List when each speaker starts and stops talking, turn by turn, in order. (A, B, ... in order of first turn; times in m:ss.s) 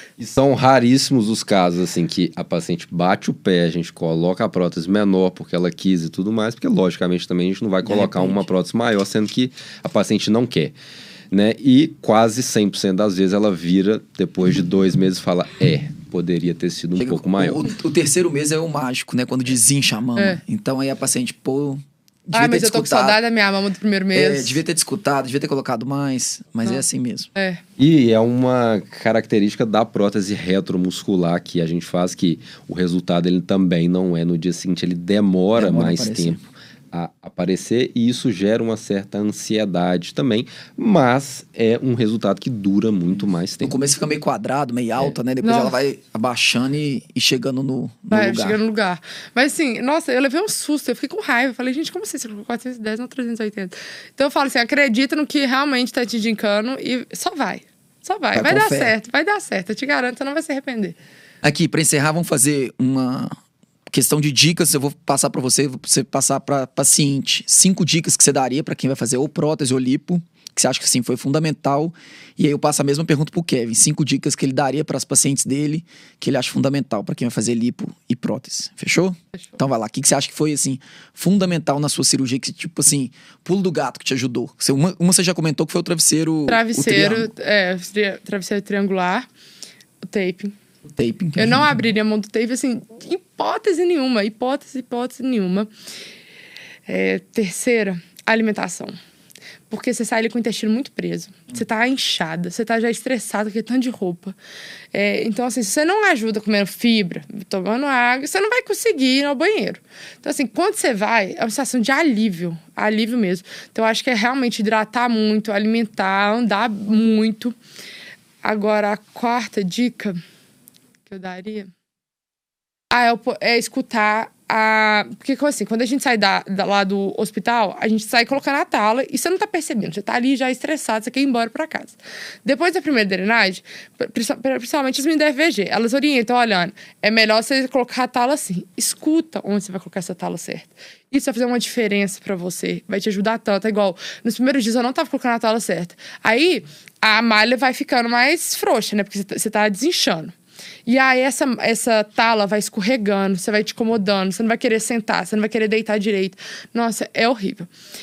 0:00.2-0:10.7 A
0:07.8-0:08.4 B
0:11.3-0:17.6 A
0:17.0-0:23.2 B
0:22.3-0:24.6 C
0:24.1-0:27.3 B
0:27.3-0:27.6 C
0:27.8-0:43.7 A
0:35.6-0:36.4 B
0:43.6-0:48.6 B
0:45.4-0:45.8 C
0:48.1-1:01.0 C
0:58.3-0:58.9 B
1:01.4-1:03.4 B
1:03.9-1:27.3 B
1:26.5-1:29.3 C
1:30.1-1:30.6 C
1:31.0-1:31.8 B
1:31.4-1:35.7 C
1:36.9-1:39.0 C
1:39.7-1:44.4 C
1:44.9-1:57.6 C
1:58.4-2:00.2 C
2:01.1-2:01.7 C
2:02.9-2:30.3 C
2:30.9-2:37.7 C